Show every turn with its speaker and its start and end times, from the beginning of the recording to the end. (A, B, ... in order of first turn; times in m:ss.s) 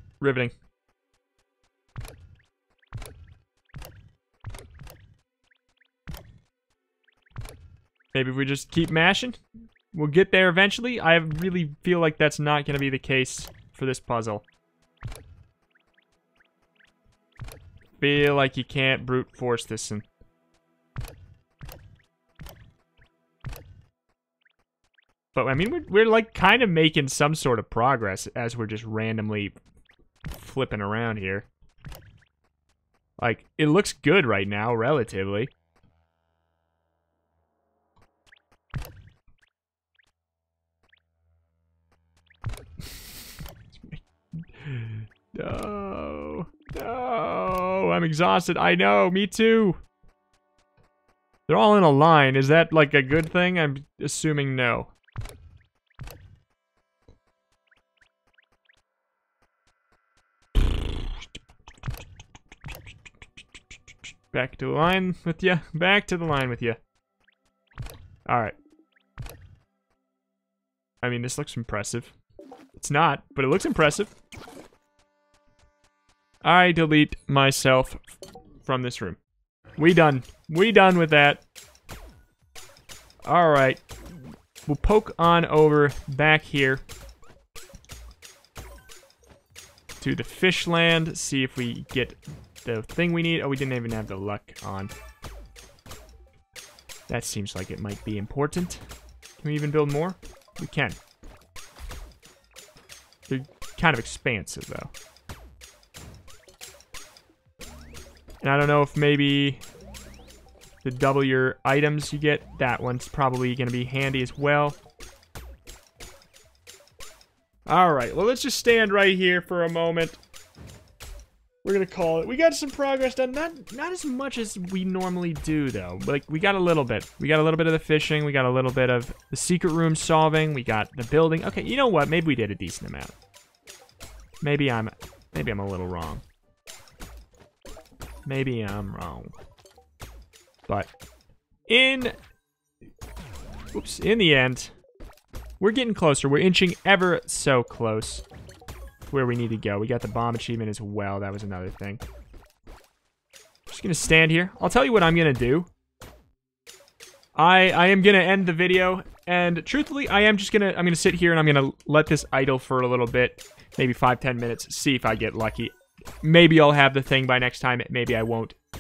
0:00.2-0:00.5 A
0:08.1-0:09.4 A
0:09.9-0:14.4 A
0:18.0-0:20.0 A
0:25.3-0:29.6 A
0:30.3-0:31.5 A
0:33.2-0:35.5 A
0:43.7-0:49.8 A
0:51.5-0:54.9 A
1:04.3-1:06.8 A
1:08.3-1:08.6 A
1:11.0-1:12.1 A
1:12.7-1:14.1 A
1:16.4-1:19.2 A
1:19.8-1:21.4 A
1:23.3-1:26.8 A
1:30.0-1:34.9 A
1:37.1-1:38.8 A
1:39.4-1:41.0 A
1:43.3-1:44.9 A
1:48.4-1:49.6 A
1:50.8-1:54.8 A
1:57.7-2:00.2 A
2:01.6-2:13.2 A
2:14.4-2:16.2 A
2:18.2-2:19.4 A
2:21.7-2:22.2 A
2:23.7-2:24.7 A
2:25.6-2:28.2 A
2:29.1-2:32.0 A
2:33.7-2:35.7 A
2:37.4-2:48.6 A